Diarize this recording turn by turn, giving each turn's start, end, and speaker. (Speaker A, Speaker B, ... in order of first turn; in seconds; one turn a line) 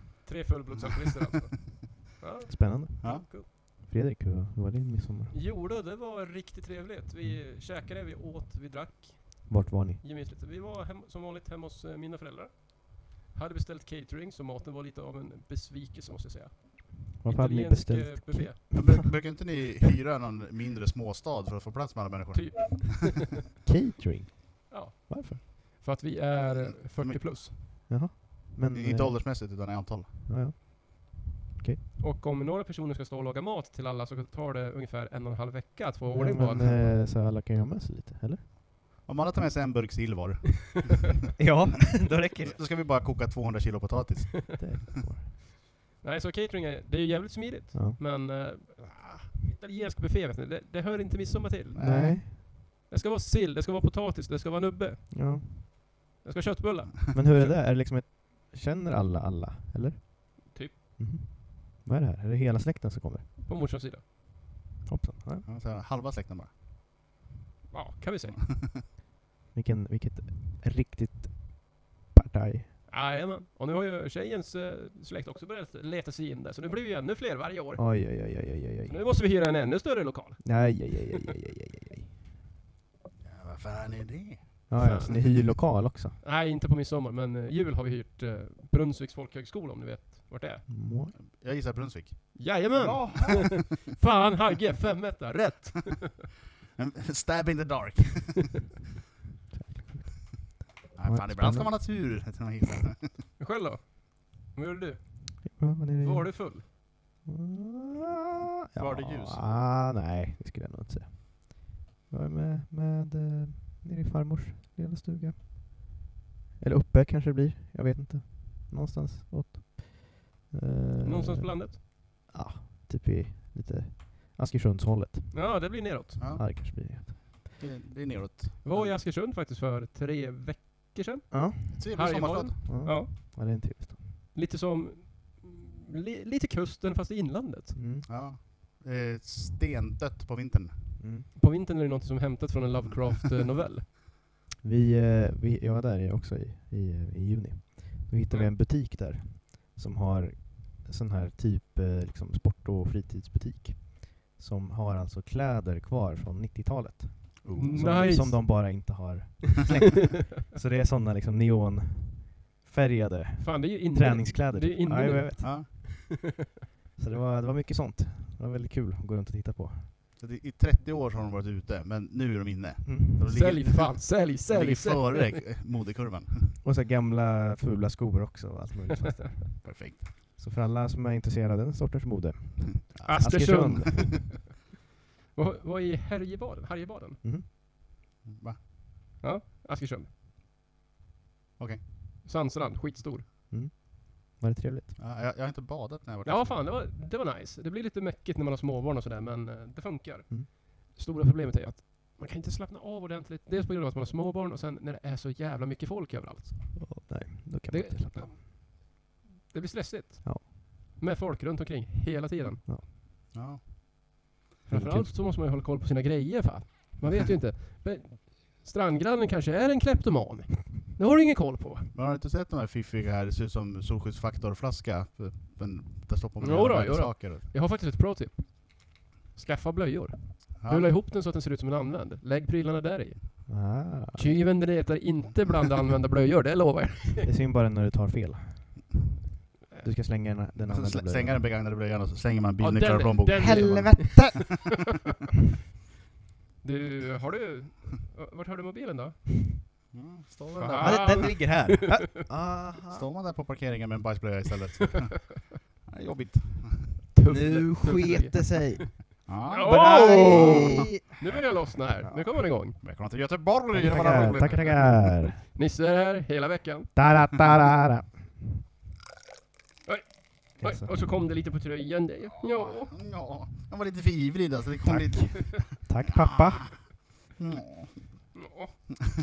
Speaker A: 0.2-3.5
Speaker B: 0.8-1.1
Speaker C: 2.5-5.4
Speaker A: 5.3-18.9
Speaker C: 9.5-10.0
Speaker C: 17.2-19.1
Speaker B: 18.7-22.9
Speaker A: 22.3-23.2
Speaker C: 23.6-25.4
Speaker A: 24.7-27.5
Speaker B: 27.0-27.8
Speaker C: 27.9-29.6
Speaker B: 28.7-30.2
Speaker C: 30.3-31.9
Speaker A: 32.0-36.9
Speaker C: 36.1-38.5
Speaker B: 39.0-41.2
Speaker C: 41.4-42.6
Speaker B: 42.4-44.6
Speaker C: 44.5-45.4
Speaker A: 46.0-51.8
Speaker C: 47.7-48.0
Speaker B: 51.7-52.2
Speaker C: 51.8-52.4
Speaker A: 52.3-57.6
Speaker C: 55.1-55.7
Speaker C: 57.1-63.4
Speaker A: 60.5-60.8
Speaker A: 63.4-64.0
Speaker C: 64.9-65.5
Speaker B: 65.5-66.5
Speaker A: 67.7-68.4
Speaker B: 68.3-68.8
Speaker C: 69.5-72.8
Speaker A: 72.9-77.9
Speaker C: 77.8-79.0
Speaker A: 78.9-80.9
Speaker C: 80.4-82.2
Speaker B: 83.2-84.6
Speaker C: 84.7-86.2
Speaker A: 84.8-85.6
Speaker A: 86.2-90.7
Speaker C: 90.7-91.2
Speaker B: 91.1-93.7
Speaker A: 92.4-96.3
Speaker B: 96.8-98.7
Speaker C: 99.5-102.0
Speaker B: 101.0-103.2
Speaker A: 103.4-106.7
Speaker C: 105.5-116.0
Speaker B: 108.8-109.5
Speaker C: 116.6-125.4
Speaker A: 121.0-121.8
Speaker A: 125.3-126.2
Speaker B: 126.2-129.0
Speaker C: 126.3-127.5
Speaker A: 128.6-133.6
Speaker C: 131.3-131.9
Speaker B: 131.8-132.9
Speaker C: 132.7-134.0
Speaker A: 134.3-137.8
Speaker C: 137.7-138.1
Speaker B: 138.1-141.0
Speaker C: 141.0-141.3
Speaker A: 141.3-143.9
Speaker C: 144.6-165.6
Speaker B: 157.4-158.0
Speaker A: 157.5-159.0
Speaker A: 163.4-166.2
Speaker B: 165.4-165.7
Speaker C: 167.0-169.9
Speaker B: 170.2-176.6
Speaker C: 172.8-173.3
Speaker A: 173.3-175.4
Speaker C: 176.6-184.3
Speaker B: 179.6-180.1
Speaker B: 182.9-184.0
Speaker A: 183.1-184.4
Speaker A: 185.3-187.2
Speaker C: 187.2-187.5
Speaker B: 188.2-188.6
Speaker A: 189.2-190.1
Speaker B: 191.6-191.9
Speaker A: 192.2-193.3
Speaker C: 193.5-195.0
Speaker B: 195.0-196.7
Speaker A: 196.2-207.1
Speaker C: 206.8-208.4
Speaker A: 207.7-212.7
Speaker B: 213.3-214.2
Speaker A: 214.7-221.9
Speaker C: 214.7-215.2
Speaker B: 221.9-227.5
Speaker A: 226.4-237.3
Speaker B: 230.6-230.9
Speaker C: 233.5-234.3
Speaker C: 237.2-238.8
Speaker C: 239.8-241.4
Speaker B: 240.7-244.5
Speaker A: 242.6-244.5
Speaker C: 243.3-244.8
Speaker A: 246.6-249.6
Speaker B: 249.9-251.5
Speaker A: 250.6-252.0
Speaker C: 250.7-253.1
Speaker B: 252.9-257.0
Speaker A: 257.1-258.9
Speaker C: 257.3-261.0
Speaker B: 259.3-261.5
Speaker A: 259.5-262.8
Speaker C: 262.0-262.8
Speaker B: 262.8-265.0
Speaker C: 263.7-265.4
Speaker A: 263.9-267.0
Speaker C: 266.9-268.4
Speaker A: 269.9-273.0
Speaker C: 270.6-271.1
Speaker B: 272.5-276.8
Speaker C: 274.9-277.0
Speaker B: 277.4-278.4
Speaker A: 278.4-278.8